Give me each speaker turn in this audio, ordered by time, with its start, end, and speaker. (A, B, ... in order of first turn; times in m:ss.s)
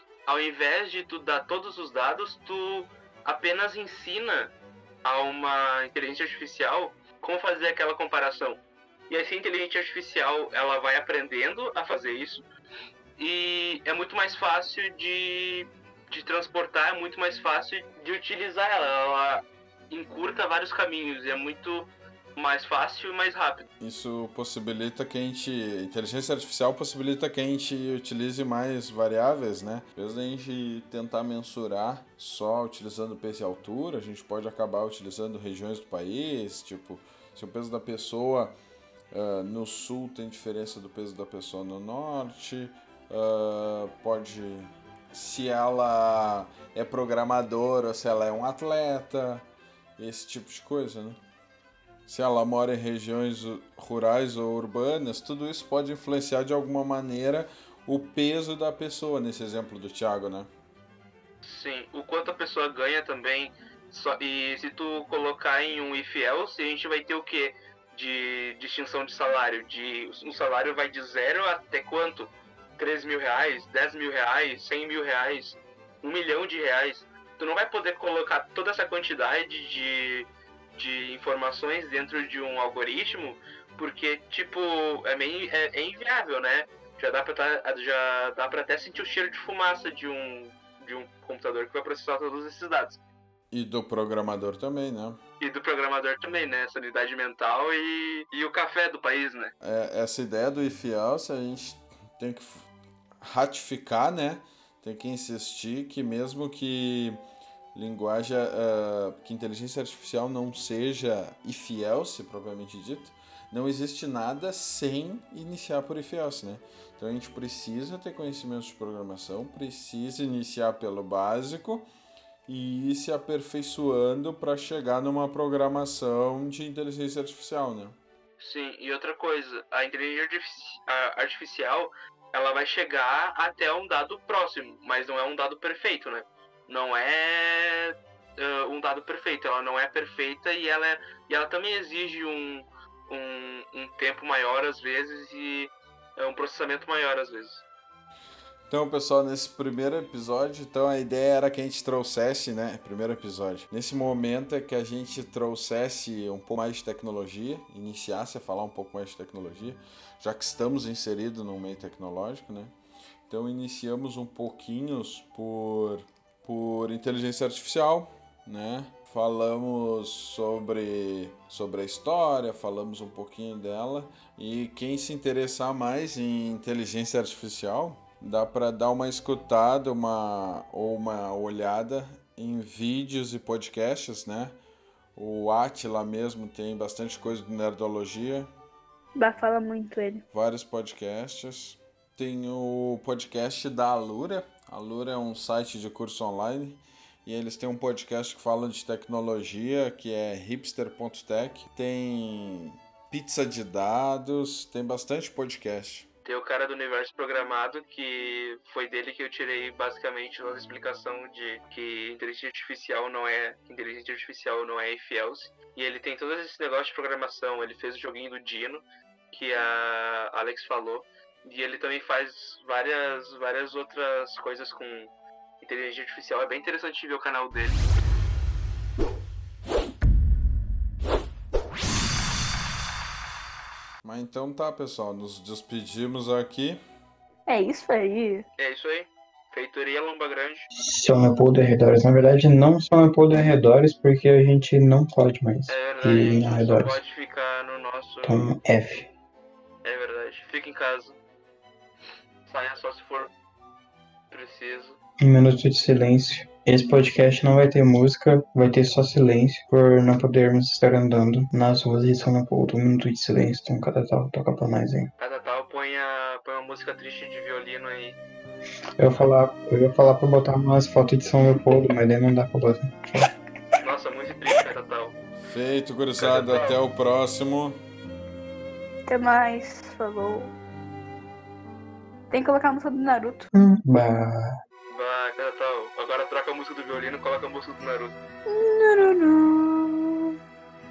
0:00.3-0:12.4 A
0:13.2-0:23.7 A
0:23.8-0:38.6 B
0:39.1-0:49.5 B
0:50.0-0:51.2 B
0:52.1-1:00.5 B
1:01.4-1:33.0 A
1:33.5-1:35.2 B
1:35.4-1:39.5 A
1:39.6-1:42.7 B
1:43.2-1:47.2 B
1:47.7-2:01.9 B
2:02.5-2:08.0 B
2:08.4-2:27.6 A
2:28.7-2:42.7 B
2:43.3-3:04.6 B
3:05.2-3:08.5 B
3:09.2-3:10.2 C
3:10.3-3:26.1 B
3:26.3-3:47.8 A
3:54.0-3:56.8 B
3:57.5-3:58.5 C
3:58.6-4:00.7 A
4:00.8-4:07.0 D
4:05.7-4:08.6 A
4:08.2-4:09.1 D
4:09.8-4:11.2 A
4:12.5-4:13.3 A
4:14.3-4:15.0 A
4:15.2-4:25.1 D
4:25.2-4:28.2 A
4:29.0-4:33.3 D
4:33.8-4:35.2 A
4:35.4-4:37.8 B
4:36.2-4:36.8 A
4:39.1-4:40.5 C
4:42.3-4:43.5 C
4:43.5-4:44.6 D
4:44.9-4:48.2 A
4:48.5-4:50.4 C